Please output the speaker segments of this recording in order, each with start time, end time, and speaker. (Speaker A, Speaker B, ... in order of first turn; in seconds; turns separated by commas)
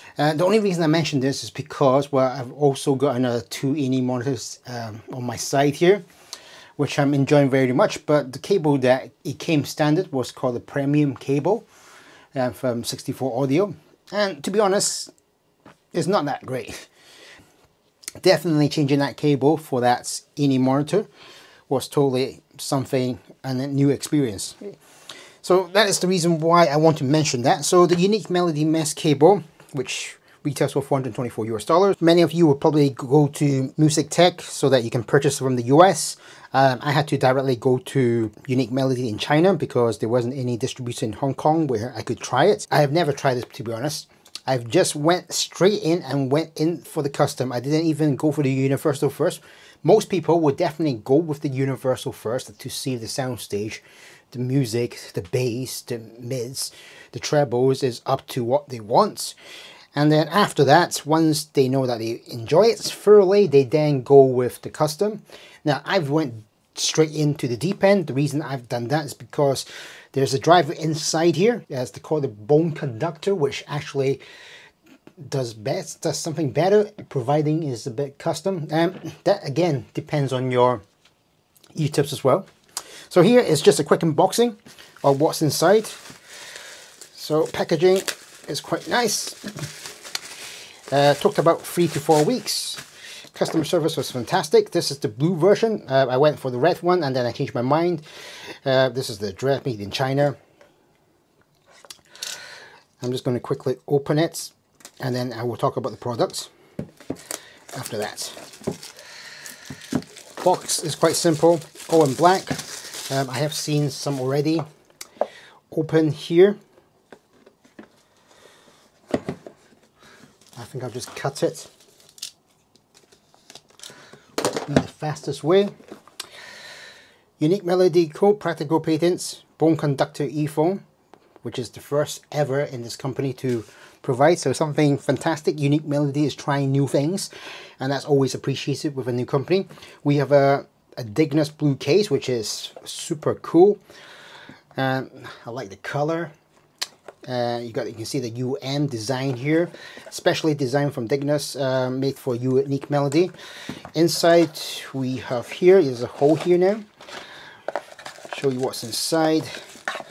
Speaker A: 0.2-6.0, Speaker A: 6.8-11.7, Speaker A: 12.3-15.1, Speaker A: 15.9-16.9, Speaker A: 18.2-21.1, Speaker A: 21.7-24.7, Speaker A: 25.4-59.4, Speaker A: 60.0-74.2, Speaker A: 75.2-80.8, Speaker A: 81.8-82.5, Speaker A: 83.1-86.0, Speaker A: 87.2-89.4, Speaker A: 90.9-98.0, Speaker A: 98.7-100.4, Speaker A: 103.0-106.5, Speaker A: 107.7-108.4, Speaker A: 110.4-114.7, Speaker A: 115.7-116.6, Speaker A: 120.6-121.7, Speaker A: 124.5-125.7, Speaker A: 127.4-130.8, Speaker A: 131.4-143.8, Speaker A: 144.8-146.3, Speaker A: 147.2-153.3, Speaker A: 153.9-156.8, Speaker A: 158.3-159.5